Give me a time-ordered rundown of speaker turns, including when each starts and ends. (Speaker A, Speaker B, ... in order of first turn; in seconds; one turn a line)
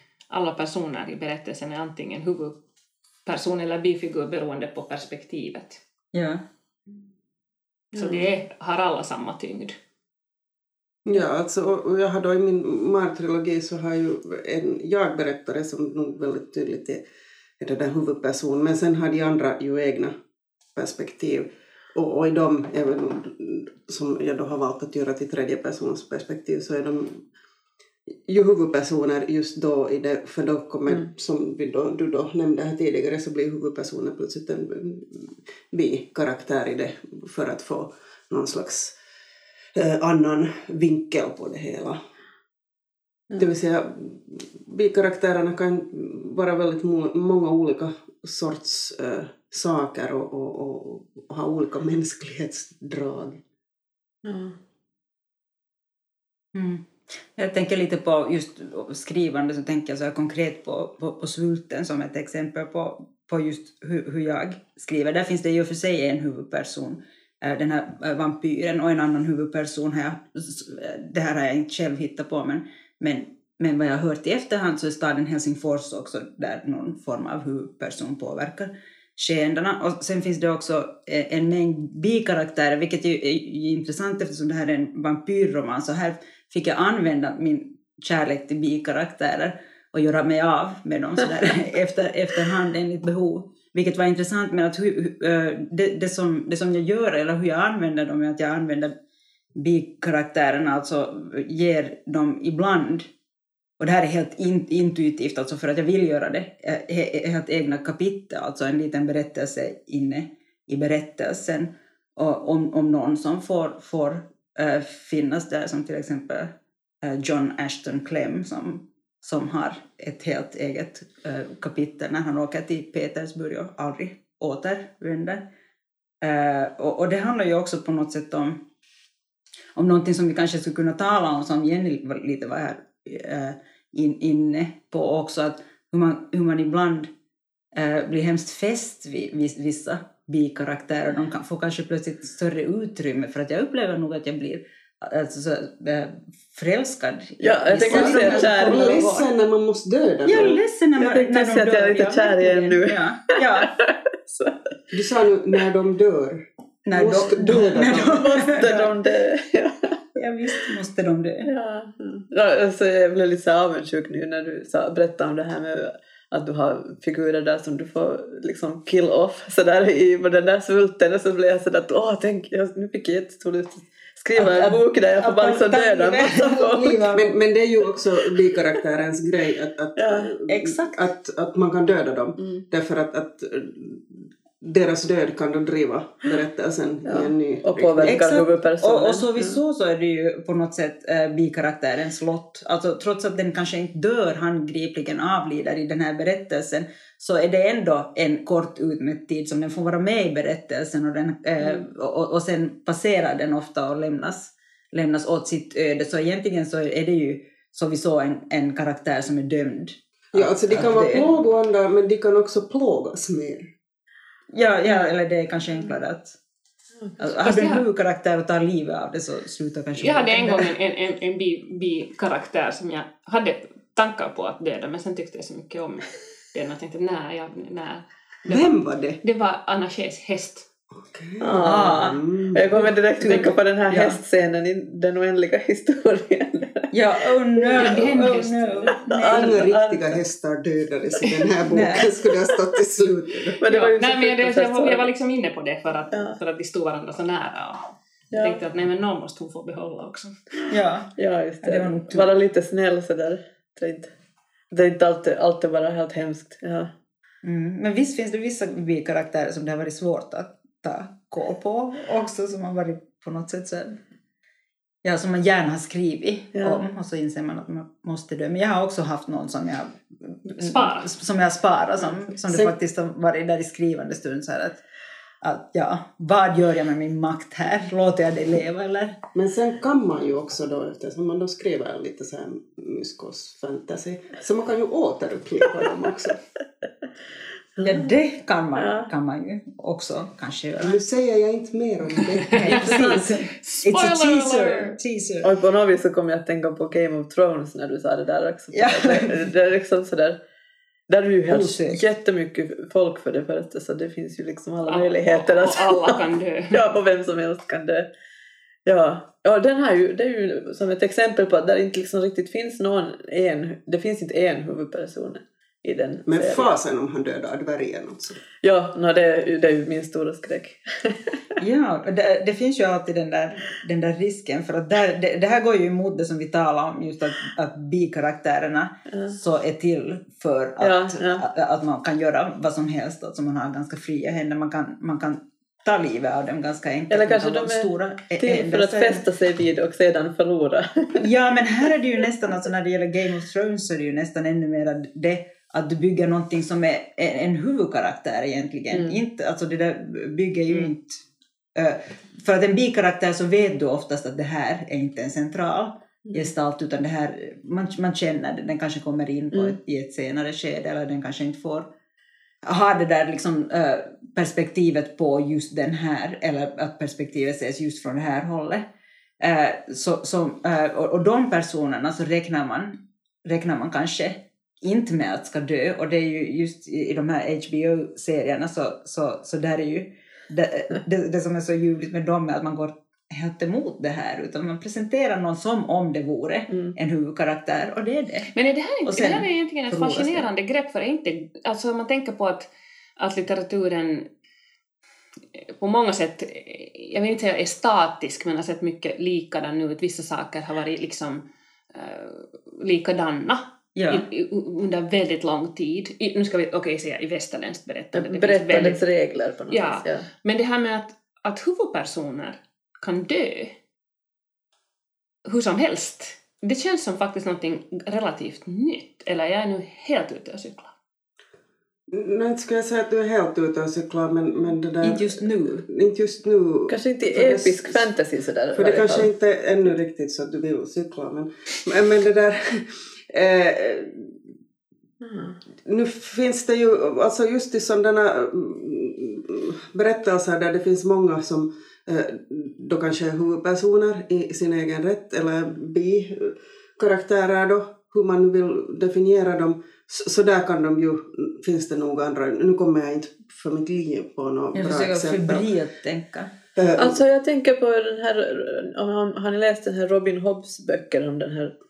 Speaker A: 0.3-2.6
Speaker A: 3.2-5.8
Speaker B: 6.1-6.4
Speaker C: 7.9-8.2
Speaker A: 7.9-9.7
Speaker D: 11.1-17.0
Speaker D: 17.6-20.1
Speaker D: 20.8-27.2
Speaker D: 28.3-39.0
Speaker D: 39.7-42.0
Speaker D: 43.4-53.4
Speaker C: 54.2-54.6
Speaker B: 56.5-98.9
Speaker B: 99.5-103.1
Speaker B: 103.8-125.5
Speaker B: 126.2-128.6
Speaker B: 129.7-137.1
Speaker B: 137.7-149.1
Speaker C: 147.4-149.2
Speaker D: 147.8-150.6
Speaker B: 150.2-153.7
Speaker C: 151.0-154.6
Speaker D: 154.9-158.2
Speaker B: 156.8-158.9
Speaker C: 157.8-160.0
Speaker B: 160.2-161.5
Speaker C: 161.4-177.2
Speaker B: 174.3-177.2
Speaker D: 177.1-188.3
Speaker C: 179.9-180.3
Speaker B: 180.5-181.0
Speaker C: 182.4-182.6
Speaker C: 187.0-189.6
Speaker B: 188.0-211.3
Speaker D: 210.3-213.7
Speaker B: 214.5-216.3
Speaker B: 217.2-220.7
Speaker A: 217.4-217.8
Speaker A: 220.0-230.7
Speaker D: 228.4-229.2
Speaker D: 231.0-232.8
Speaker C: 231.4-236.9
Speaker B: 231.6-232.2
Speaker B: 233.2-234.2
Speaker B: 236.9-239.3
Speaker C: 237.6-238.1
Speaker A: 237.6-239.0
Speaker C: 239.0-240.2
Speaker D: 239.1-243.6
Speaker B: 241.7-242.1
Speaker C: 243.6-245.1
Speaker A: 243.7-250.6
Speaker C: 246.1-246.4
Speaker C: 248.3-248.6
Speaker C: 250.6-254.1
Speaker B: 250.7-252.3
Speaker C: 254.7-256.9
Speaker B: 257.4-264.0
Speaker B: 265.0-274.8
Speaker C: 266.5-266.8
Speaker A: 270.5-271.1
Speaker B: 275.4-279.1
Speaker D: 279.3-286.4
Speaker C: 287.8-288.1
Speaker B: 287.8-291.0
Speaker C: 288.8-289.1
Speaker D: 290.8-293.2
Speaker A: 292.5-295.0
Speaker B: 292.5-295.5
Speaker C: 295.4-300.4
Speaker B: 298.7-299.4
Speaker C: 301.1-306.2
Speaker B: 301.5-302.0
Speaker A: 304.9-306.8
Speaker C: 306.7-308.1
Speaker C: 308.9-316.7
Speaker D: 316.3-318.4
Speaker C: 318.6-321.4
Speaker B: 321.6-339.2
Speaker C: 329.1-329.4
Speaker C: 330.8-331.5
Speaker C: 337.1-341.2
Speaker B: 341.2-351.2
Speaker C: 348.9-349.2
Speaker B: 351.8-361.9
Speaker C: 356.2-356.5
Speaker C: 359.5-359.8
Speaker B: 362.6-368.8
Speaker B: 369.4-388.5
Speaker A: 388.5-394.3
Speaker B: 389.1-390.5
Speaker A: 395.8-409.0
Speaker B: 403.9-404.3
Speaker C: 408.1-410.3
Speaker A: 409.7-413.7
Speaker A: 415.4-420.9
Speaker D: 422.1-428.1
Speaker B: 425.0-425.9
Speaker C: 426.9-429.3
Speaker D: 428.7-434.4
Speaker C: 435.2-435.6
Speaker D: 435.9-455.7
Speaker B: 454.7-456.5
Speaker D: 456.8-457.2
Speaker C: 457.0-461.7